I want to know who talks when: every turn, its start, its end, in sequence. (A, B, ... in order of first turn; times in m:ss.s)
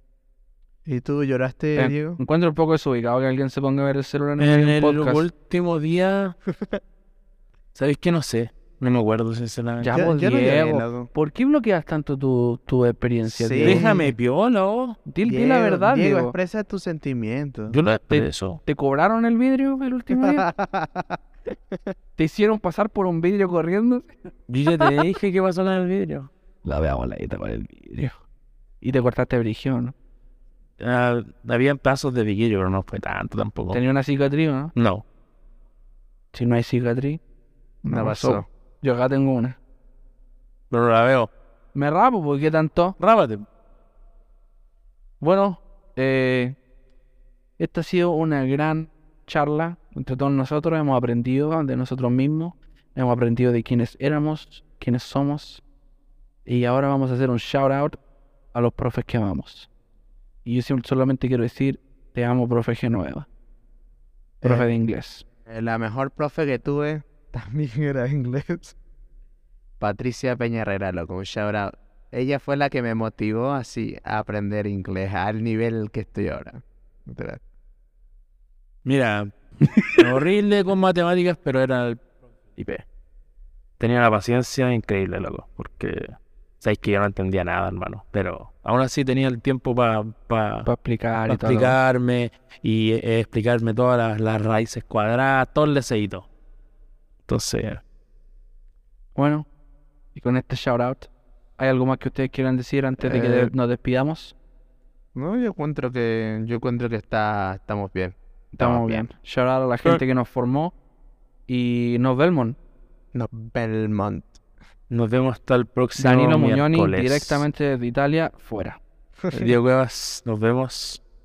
0:00.8-0:02.2 A
0:01.7-0:05.3 B
0:04.4-0:06.4 C
0:07.7-0:10.0 C
0:09.8-0:13.9 B
0:09.9-0:11.1 A
0:13.3-0:14.1 A
0:13.6-0:15.0 C
0:15.0-0:16.3 B
0:15.2-0:17.8 A
0:17.7-0:18.6 C
0:18.1-0:20.4 B
0:20.1-0:21.2 A
0:22.2-0:24.2 B
0:24.5-0:26.3 C
0:26.6-0:28.1 B
0:28.8-0:29.9 B
0:30.8-0:33.8 C
0:33.7-0:34.7 B
0:34.7-0:35.0 C
0:36.3-0:37.2 B
0:37.8-0:39.6 B
0:37.9-0:38.4 A
0:40.7-0:41.3 C
0:41.7-0:43.0 B
0:43.0-0:43.4 C
0:45.2-0:46.6 B
0:47.6-0:55.6 B
0:56.4-0:58.0 B
0:58.5-0:59.7 B
1:00.4-1:03.3 B
1:04.4-1:04.7 A
1:04.4-1:05.2 B
1:05.4-1:08.8 A
1:09.8-1:17.4 A
1:18.8-1:19.3 C
1:19.9-1:22.0 C
1:22.6-1:22.8 C
1:23.8-1:30.7 C
1:30.6-1:31.8 B
1:31.3-1:36.3 C
1:37.3-1:37.8 C
1:39.1-1:39.5 B
1:40.1-1:44.3 B
1:43.0-1:43.5 A
1:45.1-1:49.0 A
1:48.5-1:50.7 B
1:51.5-1:52.6 B
1:53.1-1:54.4 A
1:54.9-1:57.4 C
1:56.0-1:58.8 B
1:59.2-1:59.5 A
1:59.3-2:01.0 C